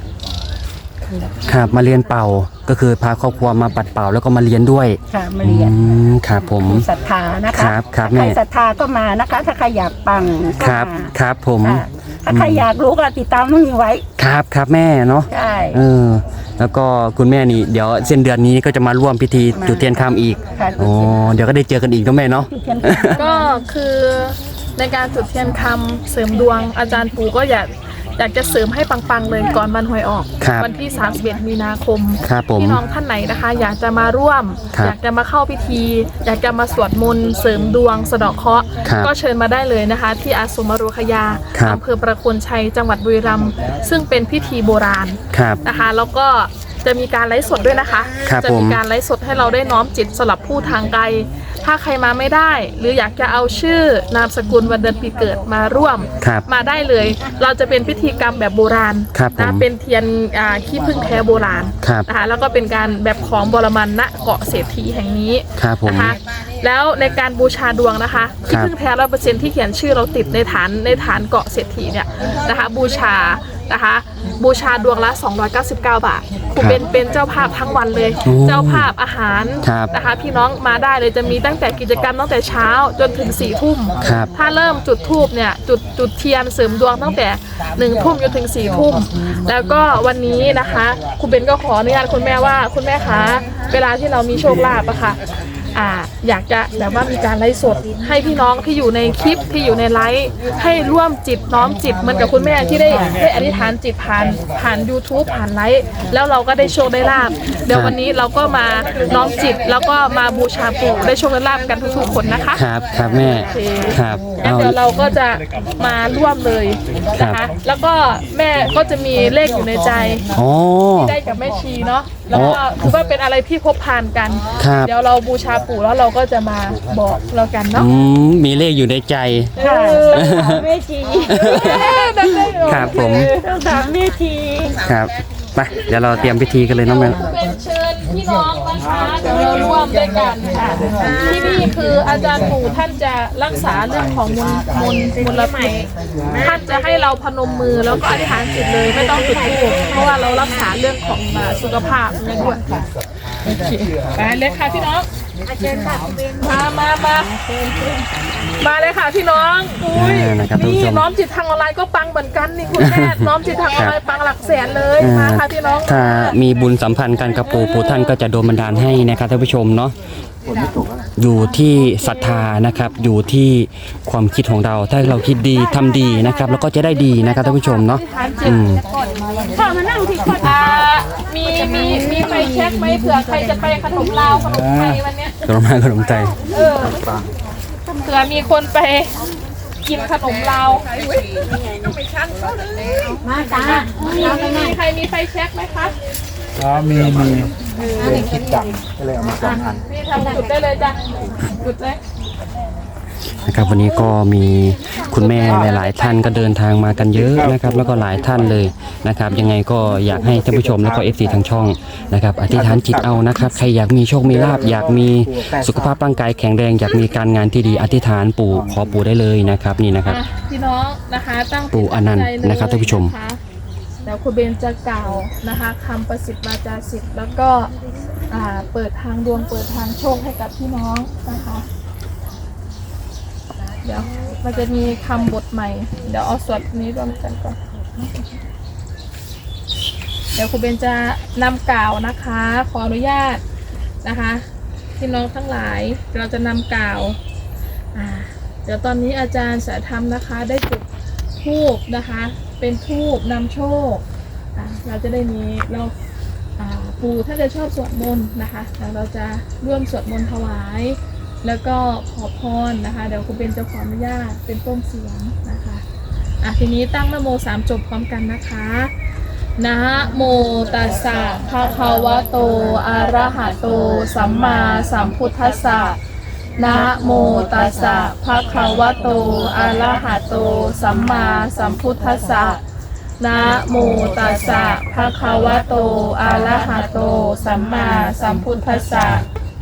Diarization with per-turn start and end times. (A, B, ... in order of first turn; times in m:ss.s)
0:01.4-0:06.8 A
0:05.1-0:05.8 B
0:06.4-0:14.0 B
0:07.5-0:08.4 A
0:10.6-0:12.6 A
0:14.2-0:23.2 A
0:15.3-0:15.8 B
0:19.5-0:19.9 B
0:20.5-0:21.2 B
0:22.5-0:23.4 B
0:23.2-1:35.2 C
0:30.4-0:30.7 A
0:32.2-0:32.8 A
0:38.8-0:39.1 A
0:41.5-0:41.8 A
0:45.3-0:45.6 A
0:48.2-0:48.8 A
0:56.2-0:56.4 A
0:59.1-0:59.6 A
1:01.8-1:02.1 A
1:05.6-1:06.2 A
1:18.2-1:18.9 A
1:19.6-1:19.9 A
1:24.0-1:24.3 A
1:35.7-1:52.6 C
1:42.9-1:43.2 B
1:47.7-1:48.0 A
1:52.5-1:54.8 A
1:53.3-2:00.2 C
1:57.2-1:57.5 A
2:00.3-2:01.2 A
2:01.0-2:07.9 C
2:02.3-2:02.6 A
2:04.6-2:04.9 A
2:07.7-2:09.5 A
2:09.6-2:10.4 C
2:09.6-2:12.1 B
2:10.1-2:10.6 A
2:11.3-2:13.3 A
2:11.3-2:13.5 C
2:12.8-2:14.8 B
2:14.8-2:17.2 A
2:16.8-2:32.6 C
2:20.5-2:20.9 B
2:33.4-2:35.1 C
2:35.8-2:37.4 C
2:38.6-2:46.4 C
2:39.9-2:41.0 A
2:42.8-2:44.0 A
2:45.0-2:49.9 A
2:47.6-2:48.1 C
2:51.2-2:58.8 A
2:52.1-2:52.4 C
2:57.0-2:59.5 C
2:59.5-3:00.8 B
3:00.4-3:05.4 C
3:05.4-3:06.4 A
3:06.5-3:07.0 C
3:08.0-3:09.2 C
3:09.8-3:10.9 C
3:11.7-3:15.9 C
3:16.6-3:19.8 D
3:17.8-3:18.2 C
3:19.5-3:22.0 C
3:23.4-3:40.2 A
3:40.0-3:43.4 C
3:41.7-3:43.1 A
3:44.0-3:47.7 C
3:48.3-3:51.7 C
3:53.8-3:57.6 C
4:00.3-4:03.4 C
4:04.0-4:04.4 C
4:05.0-4:07.2 C
4:07.9-4:10.8 C
4:11.4-4:14.0 C
4:14.5-4:15.9 C
4:16.6-4:25.8 C
4:26.4-4:28.9 C
4:29.6-4:36.0 C
4:30.5-4:36.0 B
4:36.6-4:42.6 C
4:36.6-4:42.6 B
4:43.2-4:49.2 C
4:43.3-4:49.2 B